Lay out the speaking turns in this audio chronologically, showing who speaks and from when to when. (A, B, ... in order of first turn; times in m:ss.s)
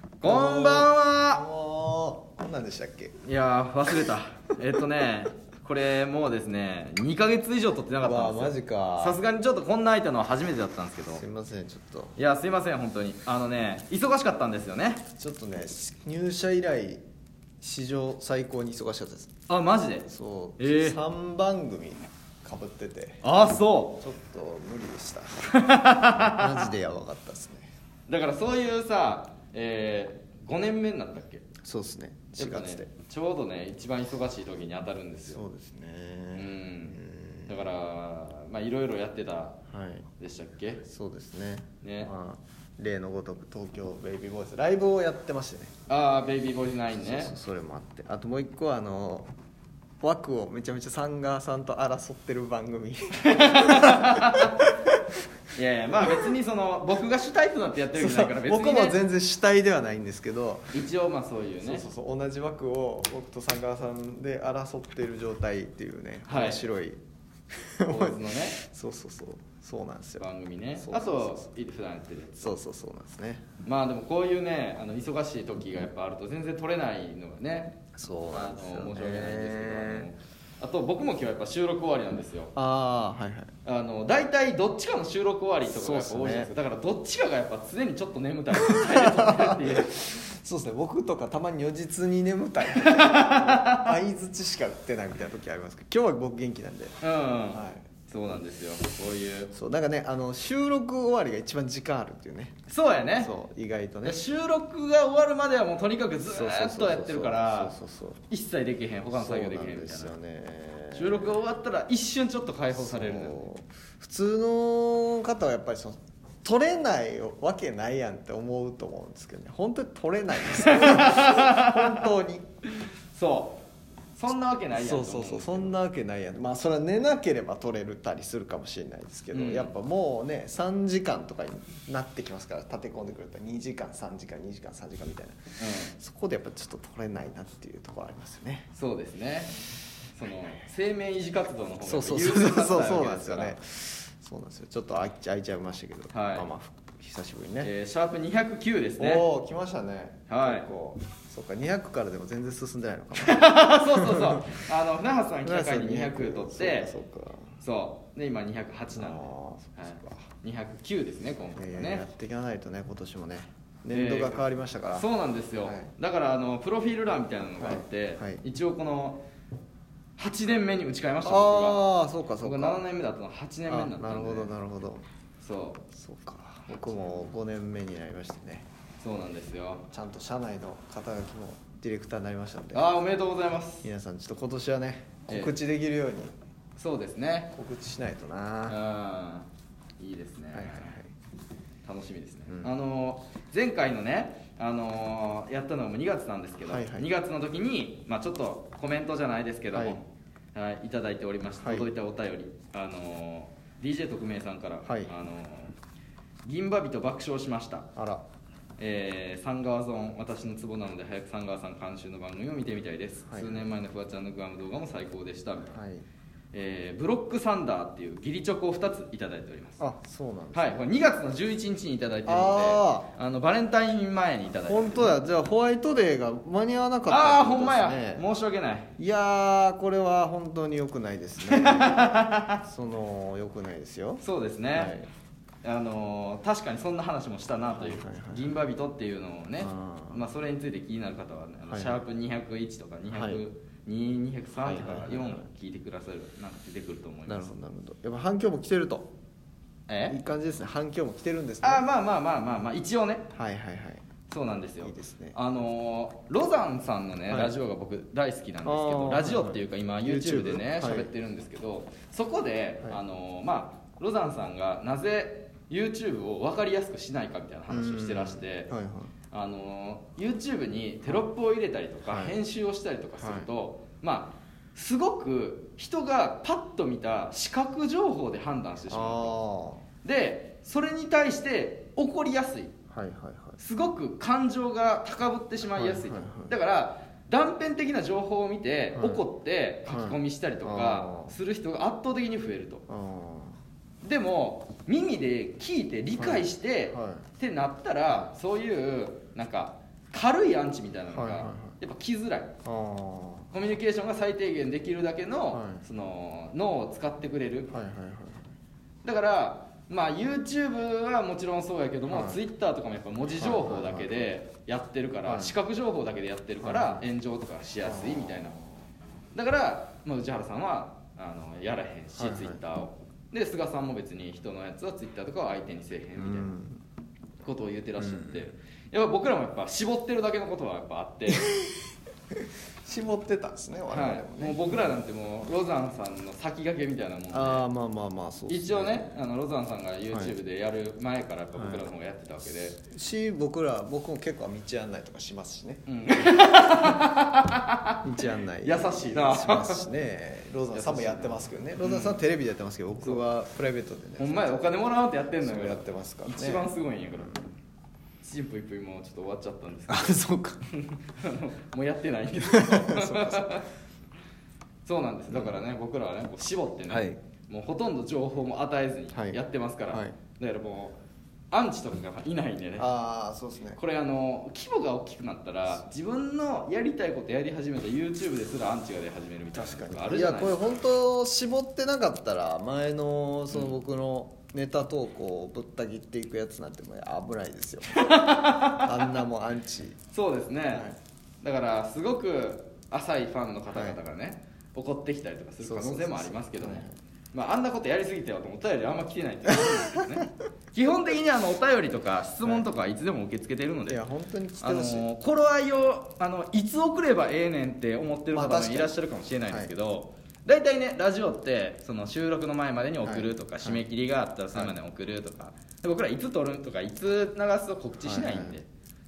0:00.2-0:01.4 A
0:00.2-0:03.1 B
0:03.2-0:11.2 A
0:08.0-0:09.2 B
0:11.1-0:12.2 B
0:12.2-0:15.0 A
0:15.2-0:17.0 B
0:17.6-0:19.3 B
0:19.5-0:20.1 A
0:20.0-0:23.4 B
0:20.6-0:21.0 A
0:23.2-0:24.0 A
0:24.0-0:25.6 B
0:25.5-0:26.7 A
0:26.1-0:27.7 B
0:28.1-0:31.4 A
0:31.6-0:32.9 B
0:32.4-0:35.4 A
0:35.3-0:37.7 B
0:36.3-0:39.6 A
0:39.7-0:40.1 B
0:40.2-0:40.8 A
0:40.8-0:45.7 B
0:41.8-0:42.1 A
0:45.9-0:47.3 A
0:47.0-0:49.3 B
0:50.0-0:55.0 B
0:53.2-0:54.6 A
0:55.5-0:59.0 A
0:56.0-0:56.3 B
0:57.9-1:00.8 B
1:00.7-1:01.8 A
1:01.6-1:07.0 B
1:06.3-1:06.6 A
1:07.5-1:11.5 B
1:07.8-1:08.6 A
1:10.2-1:12.5 A
1:12.4-1:13.4 B
1:13.6-1:17.8 A
1:17.9-1:20.1 B
1:18.3-1:22.5 A
1:22.5-1:23.5 B
1:23.6-1:29.9 A
1:25.6-1:26.5 B
1:28.6-1:37.8 B
1:32.8-1:33.9 A
1:37.0-1:39.5 A
1:39.5-1:42.6 B
1:42.7-1:43.3 A
1:43.2-1:44.3 B
1:44.0-1:47.7 A
1:46.2-1:48.2 B
1:48.3-1:50.1 A
1:49.1-1:51.4 B
1:50.9-1:53.4 A
1:52.7-2:02.5 B
2:00.5-2:02.0 A
2:03.1-2:03.6 A
2:04.2-2:05.8 A
2:04.7-2:18.7 B
2:09.3-2:09.7 A
2:15.6-2:15.9 A
2:18.7-2:23.6 A
2:21.8-2:27.7 B
2:26.1-2:26.5 A
2:27.6-2:29.2 A
2:29.0-2:34.7 B
2:30.3-2:30.7 A
2:33.1-2:36.9 A
2:35.4-2:37.6 B
2:37.6-2:42.0 A
2:39.0-2:40.3 B
2:41.5-2:45.9 B
2:43.9-2:49.2 A
2:47.6-2:48.4 B
2:50.2-2:51.8 A
2:51.2-2:52.8 B
2:52.4-2:54.5 A
2:53.7-2:55.0 B
2:55.4-2:55.8 A
2:55.9-2:58.7 B
2:59.0-2:59.8 A
2:59.9-3:02.9 B
3:02.7-3:03.9 A
3:03.8-3:06.3 B
3:05.3-3:05.5 A
3:06.8-3:07.5 A
3:07.5-3:08.8 B
3:08.7-3:09.5 A
3:10.0-3:11.0 A
3:10.5-3:11.1 B
3:11.8-3:25.7 A
3:16.6-3:17.1 B
3:19.7-3:20.0 B
3:21.6-3:21.9 B
3:24.8-3:25.1 B
3:26.4-3:27.9 A
3:28.0-3:28.2 B
3:28.8-3:35.8 A
3:33.3-3:33.7 B
3:35.7-3:36.0 B
3:36.5-3:39.8 A
3:39.8-3:40.9 B
3:40.5-3:45.1 A
3:42.2-3:43.1 B
3:44.6-3:48.2 B
3:47.0-3:48.9 A
3:49.0-3:55.1 B
3:51.5-3:52.6 A
3:54.2-3:54.9 A
3:55.6-4:07.5 A
3:57.7-3:58.5 B
3:59.6-4:00.2 B
4:01.7-4:02.0 B
4:03.1-4:03.4 B
4:04.6-4:05.5 B
4:07.2-4:09.1 B
4:09.9-4:10.2 A
4:10.1-4:11.8 B
4:11.6-4:13.2 A
4:13.3-4:14.0 B
4:14.3-4:28.7 A
4:14.8-4:15.4 B
4:17.3-4:17.5 B
4:18.6-4:21.1 B
4:27.7-4:29.1 B
4:29.3-4:39.4 A
4:32.0-4:32.4 B
4:33.2-4:33.5 B
4:38.9-4:39.8 B
4:40.0-4:42.7 A
4:42.9-4:43.6 B
4:43.6-4:52.8 A
4:45.6-4:46.6 B
4:48.9-4:49.2 B
4:49.9-4:51.4 B
4:52.9-4:53.6 B
4:54.0-5:02.5 A
4:56.2-4:57.3 B
5:01.1-5:01.8 B
5:02.6-5:03.5 B
5:03.5-5:07.7 A
5:05.5-5:05.8 B
5:07.7-5:08.5 B
5:09.0-5:18.6 A
5:12.1-5:12.4 B
5:13.3-5:14.3 B
5:15.2-5:15.6 B
5:16.6-5:17.0 B
5:17.8-5:18.7 B
5:19.3-5:26.5 A
5:22.2-5:22.6 B
5:26.2-5:26.8 B
5:27.4-5:31.5 A
5:28.0-5:28.5 B
5:31.3-5:31.8 B
5:32.3-5:35.0 B
5:33.9-5:37.6 A
5:37.3-5:39.2 B
5:38.5-5:42.8 A
5:40.1-5:40.3 B
5:41.5-5:41.9 B
5:42.8-5:47.0 B
5:45.9-5:48.0 A
5:48.0-5:54.7 B
5:48.6-5:49.8 A
5:50.7-5:52.2 A
5:54.2-5:57.5 A
5:55.4-5:57.4 B
5:58.2-6:00.2 A
5:59.9-6:00.6 B
6:00.7-6:03.7 A
6:02.4-6:03.6 B
6:04.8-6:11.0 A
6:05.3-6:05.6 B
6:06.9-6:07.2 B
6:09.1-6:10.2 B
6:11.5-6:12.9 A
6:12.8-6:13.8 B
6:13.8-6:20.8 A
6:19.5-6:30.0 B
6:27.9-6:29.2 A
6:30.1-6:30.9 A
6:30.7-6:31.0 B
6:31.4-6:44.0 A
6:33.7-6:34.0 B
6:35.6-6:36.9 B
6:39.5-6:40.0 B
6:43.9-6:45.1 B
6:44.6-6:58.6 A
6:48.3-6:49.7 B
6:53.0-6:53.8 B
6:58.0-6:58.6 B